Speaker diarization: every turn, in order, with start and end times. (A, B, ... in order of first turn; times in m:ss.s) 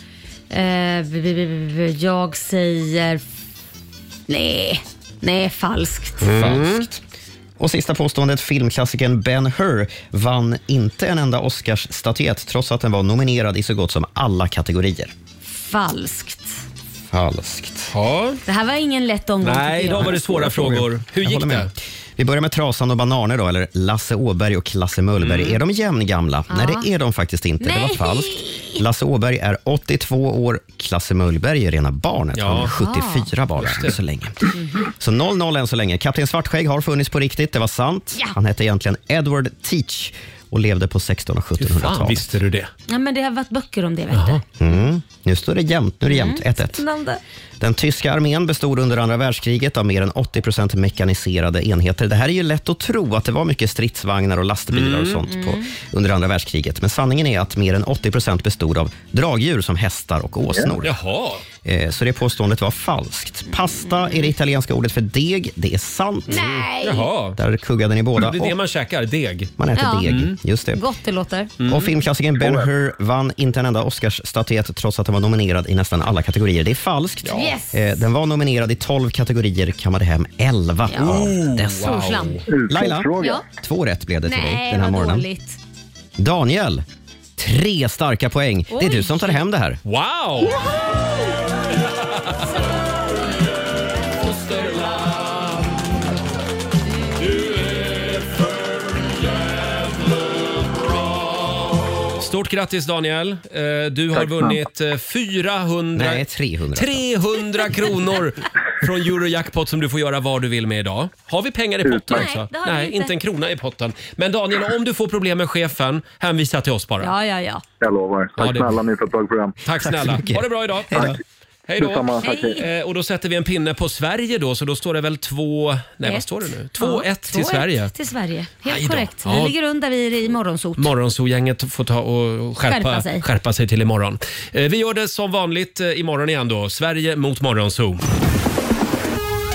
0:00.5-0:03.2 A
0:04.3-0:06.3 A
0:06.2-0:06.8 B
0:06.2-0:07.0 C
0:07.6-0:15.1 C
0:15.5-0:16.6 A
0:17.1-0:17.9 C
0:17.9-0:18.4 B
0:18.4-0:20.2 A
0:19.4-0:21.7 B
0:20.1-0:42.3 C
0:25.2-0:25.6 B
0:26.5-0:26.8 A
0:27.6-0:28.8 A
0:32.4-0:32.7 B
0:32.8-0:33.3 A
0:33.6-0:34.0 B
0:34.6-0:34.9 A
0:41.6-0:42.7 B
0:42.9-0:44.4 A
0:44.1-0:44.4 B
0:44.6-0:46.8 C
0:46.1-0:47.2 A
0:47.6-1:01.0 C
0:54.7-0:55.2 B
0:55.3-0:55.7 A
1:00.8-1:01.4 B
1:01.6-1:06.5 C
1:03.8-1:04.3 A
1:06.3-1:07.1 A
1:06.4-1:07.4 B
1:07.4-1:08.6 C
1:08.2-1:09.5 B
1:09.6-1:10.8 C
1:09.7-1:10.1 A
1:10.7-1:11.5 A
1:11.6-1:11.9 B
1:11.7-1:22.0 C
1:12.4-1:12.7 D
1:17.3-1:18.0 A
1:20.9-1:22.5 A
1:21.0-1:22.4 B
1:22.5-1:23.4 D
1:22.7-1:25.3 C
1:24.2-1:25.6 A
1:26.2-1:26.8 C
1:27.4-1:29.8 C
1:28.7-1:29.4 A
1:29.8-1:30.7 B
1:34.2-1:35.6 B
1:37.4-1:38.3 B
1:42.2-1:46.2 B
1:44.1-1:44.6 D
1:45.9-1:47.1 C
1:46.7-1:57.1 B
1:51.8-1:52.2 D
1:52.1-1:53.1 A
1:57.0-1:57.6 A
1:57.8-1:59.6 D
1:58.4-1:58.8 B
1:59.6-2:01.1 B
1:59.8-2:01.1 C
2:01.7-2:07.9 B
2:01.8-2:02.6 D
2:02.2-2:02.6 A
2:06.0-2:10.9 A
2:08.6-2:09.5 B
2:10.8-2:18.0 B
2:12.6-2:13.2 A